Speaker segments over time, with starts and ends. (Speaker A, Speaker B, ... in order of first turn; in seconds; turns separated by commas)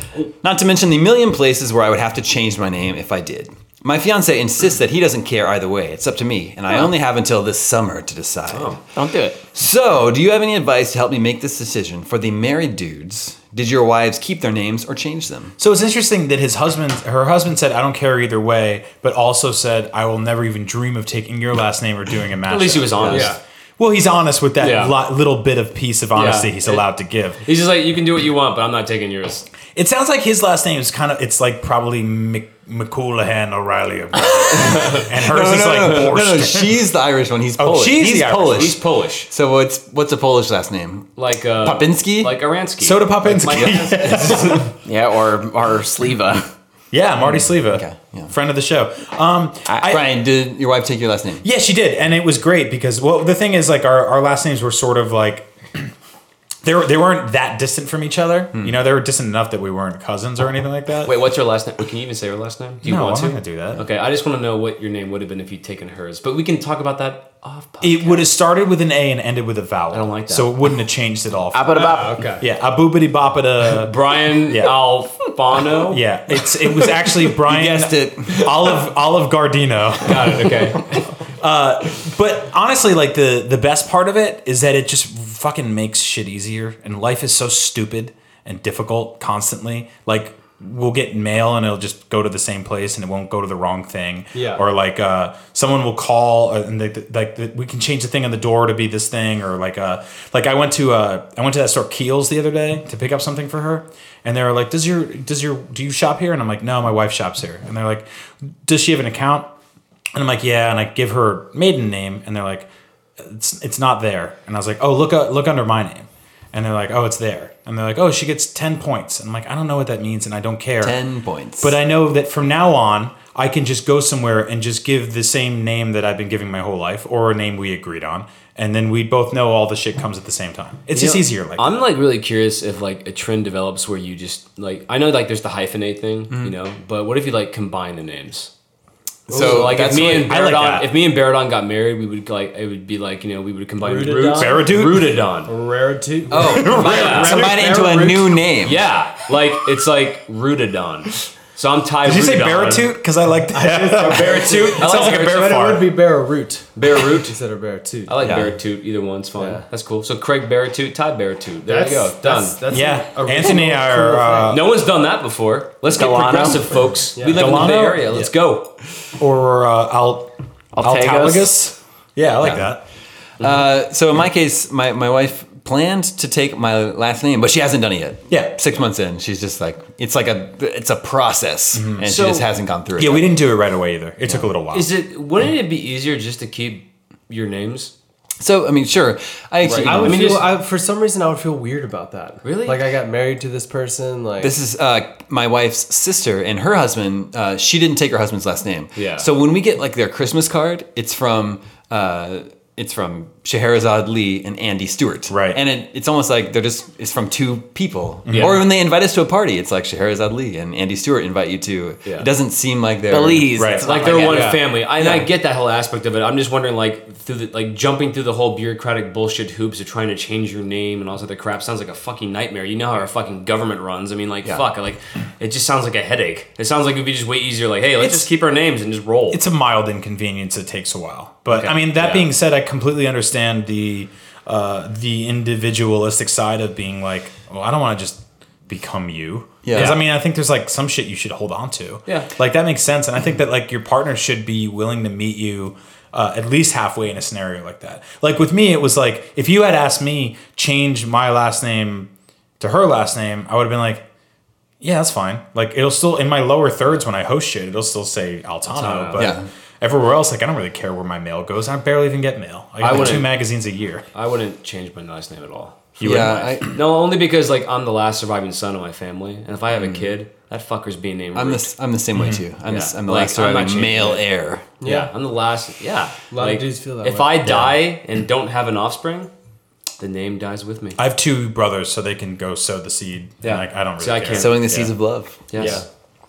Speaker A: 0.2-8.8, Speaker B: 8.5-8.8, Speaker C: 8.9-9.4, Speaker A: 9.5-15.5, Speaker D: 15.6-27.4, Speaker B: 22.5-23.4, Speaker E: 23.1-23.4, Speaker B: 24.6-25.0, Speaker B: 26.1-26.9, Speaker B: 27.4-29.4, Speaker D: 29.8-36.8, Speaker B: 34.7-35.0, Speaker A: 35.2-42.4, Speaker D: 37.6-38.8, Speaker B: 38.4-39.3, Speaker B: 41.2-44.7, Speaker D: 42.8-44.7, Speaker A: 43.5-43.9, Speaker C: 44.8-46.5, Speaker D: 46.9-50.1, Speaker A: 47.3-48.3, Speaker A: 49.8-51.4, Speaker D: 51.4-55.9, Speaker D: 56.6-61.1, Speaker B: 61.0-68.3, Speaker D: 62.8-63.8, Speaker D: 67.8-73.9, Speaker B: 69.9-70.5, Speaker C: 71.5-72.2, Speaker E: 71.7-72.5, Speaker B: 73.7-76.0, Speaker D: 74.5-74.8, Speaker D: 75.9-108.1, Speaker A: 77.4-78.5, Speaker B: 80.0-81.1, Speaker E: 94.3-94.6, Speaker D: 108.6-109.5, Speaker D: 110.1-112.7, Speaker D: 113.2-121.0, Speaker A: 120.8-121.8, Speaker D: 121.6-131.8, Speaker B: 130.9-138.5, Speaker A: 136.3-136.6, Speaker E: 139.3-140.1, Speaker A: 139.3-140.3, Speaker B: 139.4-145.5, Speaker D: 140.1-140.9, Speaker E: 143.8-144.8, Speaker D: 144.3-145.2, Speaker E: 145.5-148.4, Speaker A: 146.3-148.8, Speaker D: 146.4-147.4, Speaker B: 146.8-147.4, Speaker B: 148.6-152.9, Speaker D: 152.0-155.9, Speaker E: 153.5-158.4, Speaker B: 154.1-155.6, Speaker B: 156.8-157.3, Speaker B: 158.1-162.6, Speaker A: 158.2-158.5, Speaker E: 159.4-159.6, Speaker E: 161.7-164.5, Speaker D: 162.7-164.7, Speaker B: 164.5-168.7, Speaker C: 165.9-166.7, Speaker E: 167.2-167.7, Speaker D: 167.3-168.3, Speaker D: 169.2-172.8, Speaker C: 170.8-171.5, Speaker A: 172.4-172.7, Speaker A: 173.4-183.3, Speaker D: 178.3-178.6, Speaker D: 181.7-182.1, Speaker B: 182.0-182.5, Speaker D: 183.0-184.9, Speaker B: 184.7-187.9, Speaker A: 188.4-190.4, Speaker B: 189.6-190.5, Speaker E: 189.8-194.6, Speaker B: 192.4-192.8, Speaker A: 194.4-213.7, Speaker B: 198.9-199.3, Speaker D: 205.3-205.6, Speaker D: 208.2-208.6, Speaker B: 208.3-208.6, Speaker C: 213.1-214.5, Speaker D: 213.6-213.8, Speaker B: 213.8-229.4, Speaker E: 214.2-214.6, Speaker D: 228.0-228.3, Speaker D: 229.3-254.0, Speaker B: 231.5-232.3, Speaker A: 239.6-240.0, Speaker B: 239.7-240.0, Speaker D: 254.8-264.0, Speaker B: 258.7-259.4, Speaker A: 259.1-259.5, Speaker B: 262.8-263.4, Speaker B: 264.1-271.7, Speaker D: 266.0-266.6, Speaker A: 266.0-266.7, Speaker A: 271.4-274.7, Speaker D: 272.1-272.4, Speaker B: 272.6-274.2, Speaker E: 274.8-275.1, Speaker B: 274.8-279.3, Speaker E: 276.3-277.5, Speaker B: 280.0-281.0, Speaker D: 281.0-284.9, Speaker B: 283.4-284.9, Speaker A: 284.4-285.6, Speaker B: 285.5-285.9, Speaker E: 285.6-285.8